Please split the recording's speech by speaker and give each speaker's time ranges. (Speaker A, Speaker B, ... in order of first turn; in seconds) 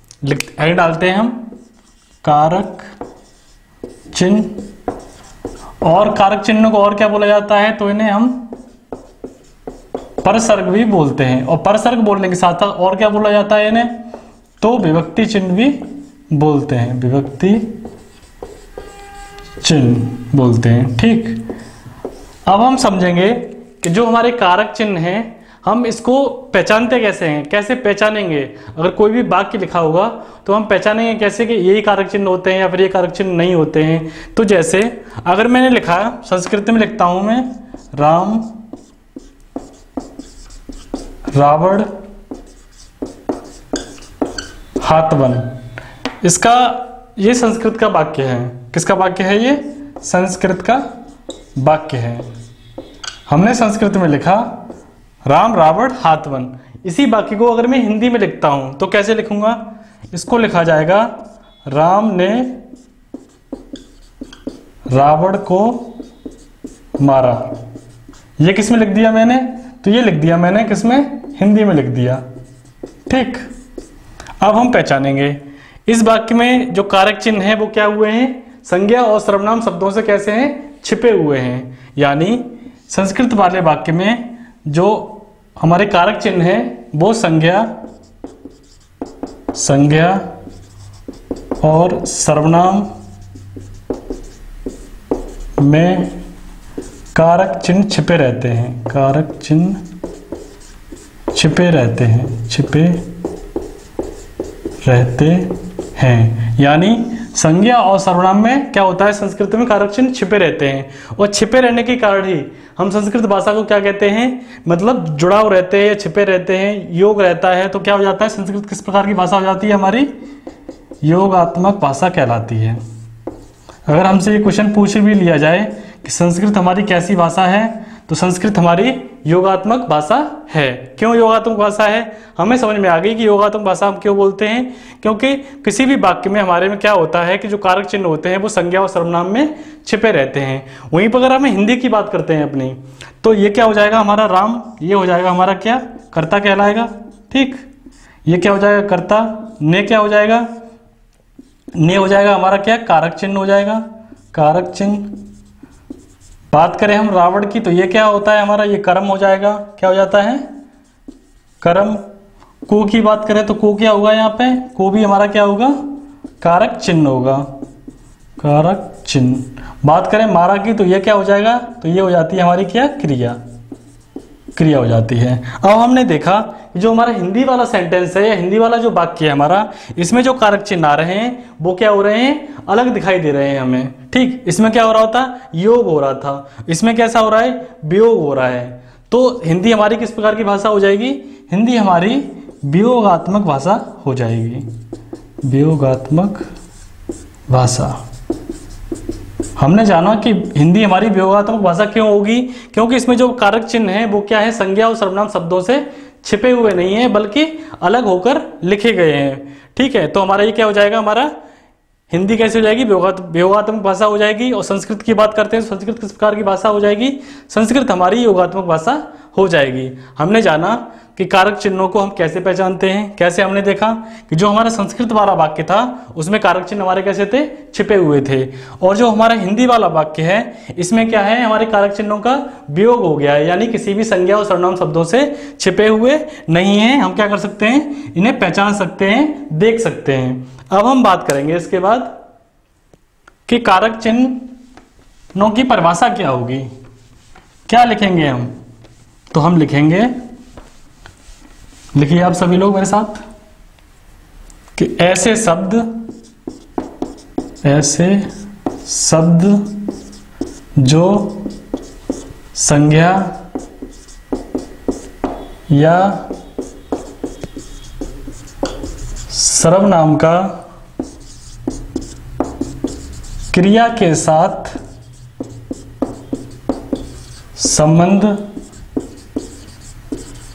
Speaker A: 0.2-1.5, 2.2-2.9, 4.1-4.7, 5.8-8.5, 10.2-14.0, 14.6-17.8, 19.6-21.4, 22.5-38.6, 41.4-41.9, 44.8-45.5, 46.2-50.8, 51.6-52.3, 53.3-54.6, 55.3-61.1, 61.7-62.6, 64.9-66.0, 67.0-67.6, 68.4-72.2, 73.1-73.5, 74.4-87.7, 89.5-90.2, 91.6-92.9, 95.6-96.2, 97.1-99.8, 101.3-103.0, 104.8-120.1, 121.0-122.8, 123.9-147.7, 148.3-150.5, 151.8-155.2, 156.5-160.5, 161.6-162.0, 162.7-165.8, 166.4-167.5, 168.4-173.4, 174.6-194.7, 195.4-196.5, 197.5-198.0, 199.6-211.3, 212.1-242.2, 243.5-244.5, 245.3-246.7, 247.7-248.5, 249.3-250.1, 251.9-253.2, 254.8-256.0, 257.6-258.3, 258.9-259.9, 260.8-261.5, 262.6-263.3, 265.7-266.3, 269.3-270.6, 273.5-274.8, 277.6-278.4